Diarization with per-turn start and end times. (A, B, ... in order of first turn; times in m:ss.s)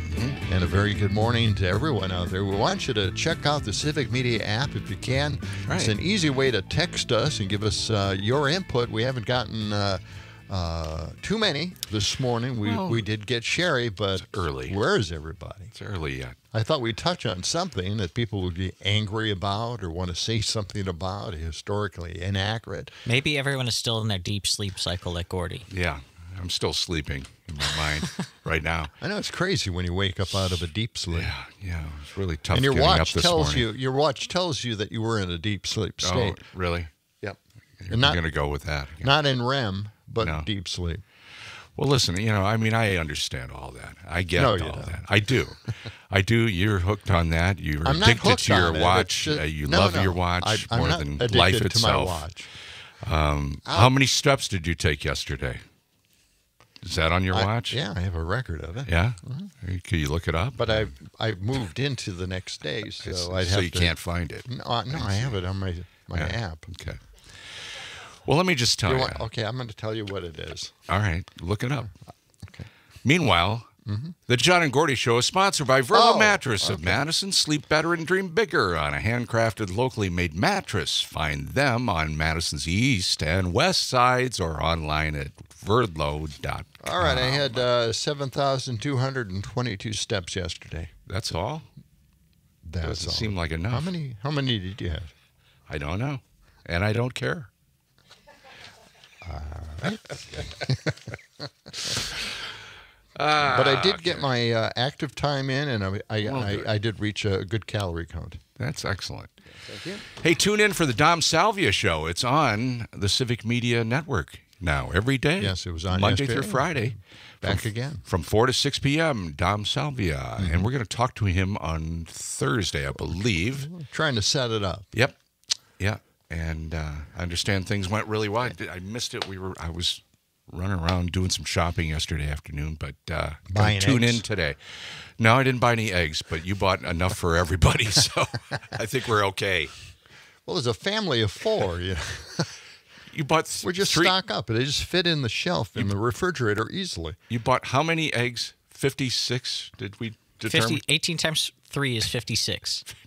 0:00.1-0:00.4 A
0:00.5-0:15.7 B
0:05.7-0:05.9 A
0:12.6-0:13.0 A
0:14.2-0:14.8 A
0:15.7-0:16.4 A
0:16.5-0:22.9 B
0:23.1-0:25.7 C
0:25.7-0:28.9 A
0:29.0-0:31.3 B
0:31.1-0:33.7 A
0:32.5-0:36.4 B
0:36.0-0:36.9 A
0:37.8-0:39.1 A
0:37.9-0:38.2 B
0:39.0-0:41.0 B
0:40.2-0:40.5 A
0:41.8-0:45.6 A
0:44.4-0:45.1 B
0:46.1-0:52.3 A
0:47.8-0:52.5 B
0:53.0-0:55.6 A
0:53.7-0:53.9 B
0:56.8-0:57.8 A
0:57.3-0:59.5 B
0:58.9-1:00.9 A
1:00.6-1:03.9 B
1:03.0-1:05.4 A
1:04.4-1:06.7 B
1:06.1-1:09.2 A
1:08.8-1:10.8 B
1:10.9-1:11.9 A
1:12.4-1:12.7 B
1:13.0-1:13.7 A
1:13.9-1:14.2 B
1:14.3-1:27.7 A
1:15.9-1:17.0 B
1:26.8-1:30.9 B
1:31.1-1:31.7 A
1:32.6-1:35.1 B
1:32.8-1:33.9 A
1:35.7-1:37.5 A
1:39.2-1:40.8 B
1:40.3-1:40.7 A
1:41.8-1:42.3 A
1:43.2-1:44.3 A
1:43.4-1:48.4 B
1:46.2-1:46.7 A
1:48.6-1:49.3 A
1:49.6-1:50.0 B
1:50.1-2:03.7 A
1:55.4-1:58.0 B
2:00.4-2:00.7 B
2:03.6-2:04.9 B
2:05.8-2:19.7 A
2:13.5-2:14.2 B
2:20.5-2:22.5 B
2:23.1-2:24.1 A
2:23.6-2:27.2 B
2:27.3-2:30.8 A
2:30.4-2:32.8 C